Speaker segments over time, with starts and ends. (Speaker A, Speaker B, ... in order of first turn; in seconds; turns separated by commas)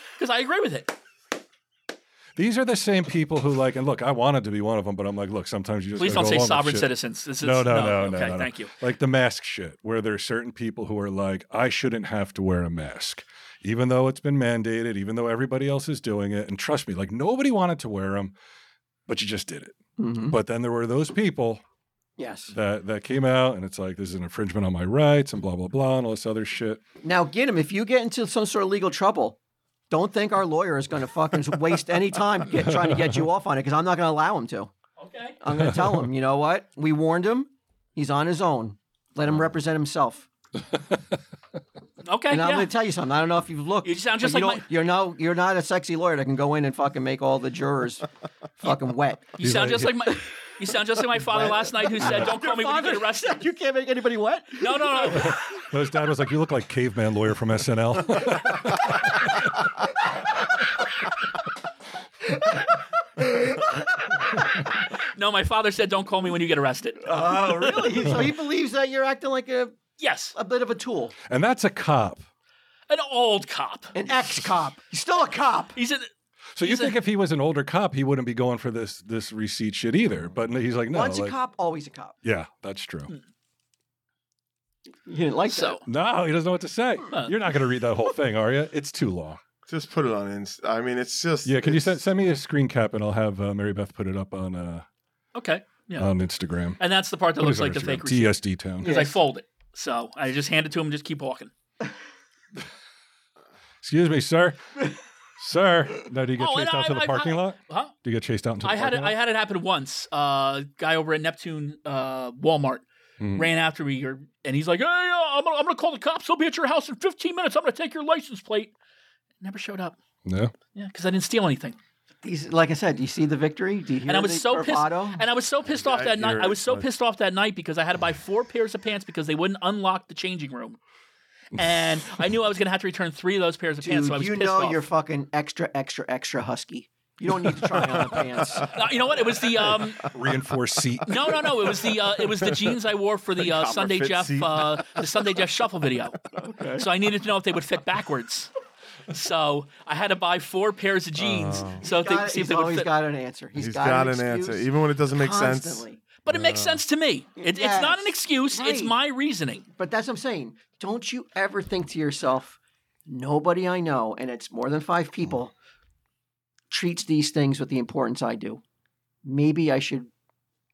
Speaker A: 0.2-1.0, Speaker B: 2.4-18.4, Speaker A: 6.0-8.7, Speaker B: 19.1-19.8, Speaker C: 20.0-20.4, Speaker B: 20.3-21.6, Speaker C: 22.2-22.5, Speaker B: 22.5-26.8, Speaker C: 27.0-29.4, Speaker C: 29.9-34.7, Speaker B: 32.7-33.1, Speaker A: 35.0-35.4, Speaker C: 35.4-40.3, Speaker B: 35.6-35.9, Speaker A: 42.0-42.7, Speaker C: 42.3-48.1, Speaker A: 43.8-44.6, Speaker C: 48.6-49.3, Speaker A: 49.4-53.4, Speaker B: 49.4-50.1, Speaker C: 51.3-55.4, Speaker B: 52.0-52.3, Speaker A: 54.6-55.4, Speaker B: 55.6-59.3, Speaker C: 62.3-64.7, Speaker A: 65.0-68.2, Speaker C: 67.0-69.8, Speaker A: 70.0-70.3, Speaker C: 70.3-71.2, Speaker B: 71.3-72.3, Speaker A: 72.9-74.0, Speaker C: 73.9-75.8, Speaker A: 75.8-76.1, Speaker B: 76.6-81.3, Speaker A: 76.6-77.0, Speaker C: 80.9-82.2, Speaker B: 82.2-83.1, Speaker C: 85.1-85.8, Speaker A: 85.5-85.8, Speaker B: 85.8-89.4, Speaker D: 89.7-92.0, Speaker B: 91.5-94.9, Speaker A: 95.3-96.1, Speaker B: 96.0-96.8, Speaker A: 96.8-101.5, Speaker B: 97.4-98.9, Speaker C: 98.8-99.2, Speaker B: 103.8-109.2, Speaker A: 106.4-108.0, Speaker A: 108.6-118.7, Speaker B: 113.2-113.5, Speaker A: 119.4-120.0, Speaker B: 120.2-120.5, Speaker A: 120.7-121.8, Speaker C: 122.2-125.2, Speaker A: 124.1-130.8, Speaker D: 125.7-126.9, Speaker A: 131.6-134.8, Speaker C: 133.8-138.7, Speaker A: 138.7-140.1, Speaker B: 140.1-141.4, Speaker A: 141.1-146.2, Speaker D: 143.4-145.3, Speaker C: 146.3-146.9, Speaker A: 146.7-148.5, Speaker A: 149.1-152.9, Speaker D: 151.2-151.8, Speaker C: 151.8-156.0, Speaker D: 153.6-156.8, Speaker A: 156.2-159.7, Speaker C: 157.4-158.9, Speaker C: 159.7-165.5, Speaker C: 166.7-168.6, Speaker C: 169.2-170.1